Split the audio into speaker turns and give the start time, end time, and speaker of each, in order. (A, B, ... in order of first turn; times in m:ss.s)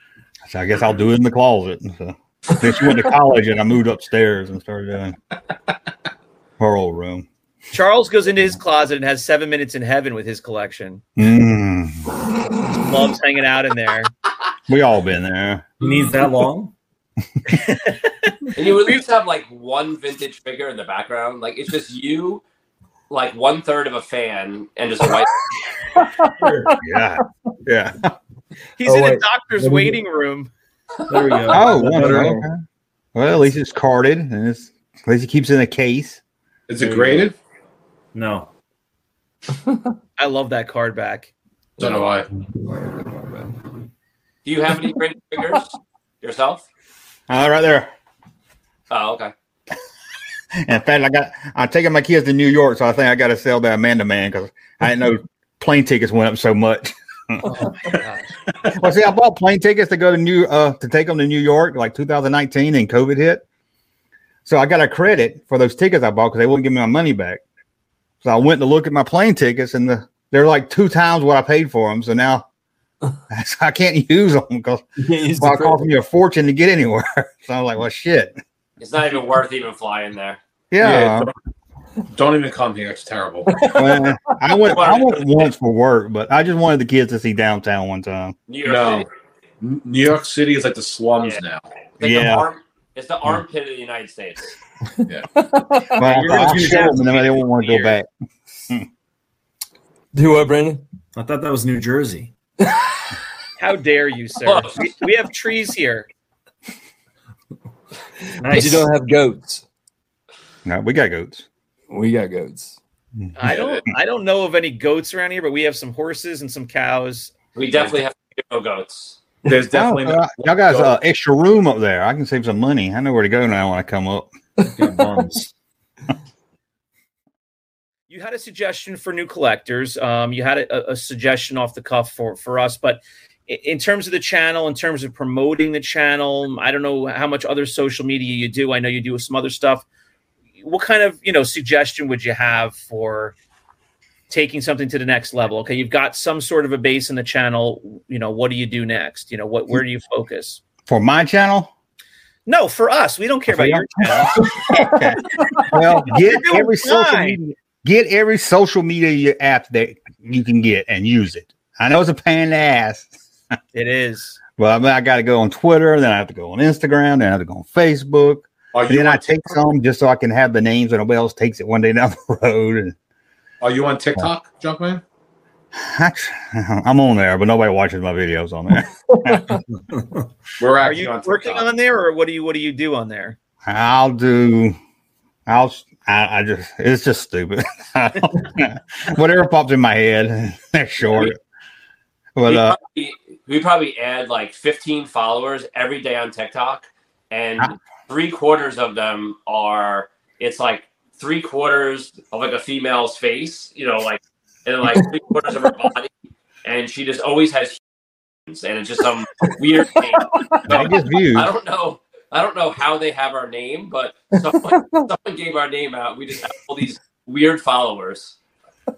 0:00.5-0:05.2 A
0:06.6-0:07.3 A
0:07.7-0:11.0 B
0:11.2-0:12.1 A
0:12.7-0:14.1 B
0:14.7-0:15.7 A
0:15.8-0:16.7 C
0:17.5-0:18.3 B
0:18.6-0:22.4 D
0:23.1-0:25.3 D
0:26.0-0:26.8 E
0:26.8-0:28.1 A
0:28.8-0:30.5 B
0:28.8-0:30.0 E
0:31.1-0:32.5 C
0:31.5-0:32.6 A
0:31.8-0:32.2 E
0:33.2-0:36.2 A
0:36.7-0:37.4 F
0:36.8-0:37.2 C
0:38.1-0:38.5 C
0:40.2-0:41.3 B
0:41.8-0:42.3 F
0:43.0-0:43.5 E
0:44.4-0:46.6 D
0:47.3-0:47.9 A
0:48.9-0:49.3 D
0:50.6-0:57.7 A
0:58.7-1:03.4 A
1:04.4-1:07.4 A
1:08.2-1:12.5 A
1:13.3-1:14.8 A
1:15.0-1:15.9 E
1:15.4-1:18.4 A
1:18.8-1:20.4 D
1:20.7-1:21.3 A
1:20.8-1:21.3 F
1:22.1-1:23.5 F
1:23.5-1:24.1 E
1:23.7-1:28.4 A
1:24.6-1:25.5 D
1:28.5-1:29.1 D
1:28.6-1:29.1 F
1:29.6-1:31.6 F
1:32.0-1:34.6 D
1:32.0-1:32.5 A
1:35.4-1:36.1 E
1:36.0-1:38.1 A
1:36.2-1:37.0 B
1:37.0-1:37.4 D
1:40.1-1:40.8 E
1:41.2-1:42.3 C
1:42.6-1:42.9 E
1:43.6-1:46.1 B
1:44.4-1:44.9 D
1:48.4-1:48.9 C
1:48.5-1:49.6 E
1:50.7-1:51.4 A
1:51.9-1:52.8 E
1:53.4-1:57.3 B
1:57.6-1:59.2 D
1:59.5-2:01.0 F
1:59.7-2:04.3 A
2:04.8-2:05.5 C
2:08.1-2:19.8 B
2:20.6-2:23.3 B
2:24.3-2:30.6 B
2:30.9-2:31.7 A
2:32.5-2:34.5 B
2:33.5-2:43.1 A
2:34.7-2:35.6 E
2:36.1-2:37.4 B
2:43.7-2:44.4 B
2:44.6-2:53.0 A
2:48.7-2:49.6 F
2:53.6-2:55.0 F
2:55.7-2:59.6 A
2:59.9-3:00.2 C
3:00.6-3:01.7 F
3:00.8-3:03.4 B
3:03.6-3:04.8 A
3:05.5-3:11.4 A
3:12.4-3:12.8 A
3:12.4-3:26.1 D
3:26.6-3:27.8 D
3:28.5-3:38.4 D
3:30.2-3:30.6 E
3:30.7-3:31.5 A
3:34.7-3:35.0 E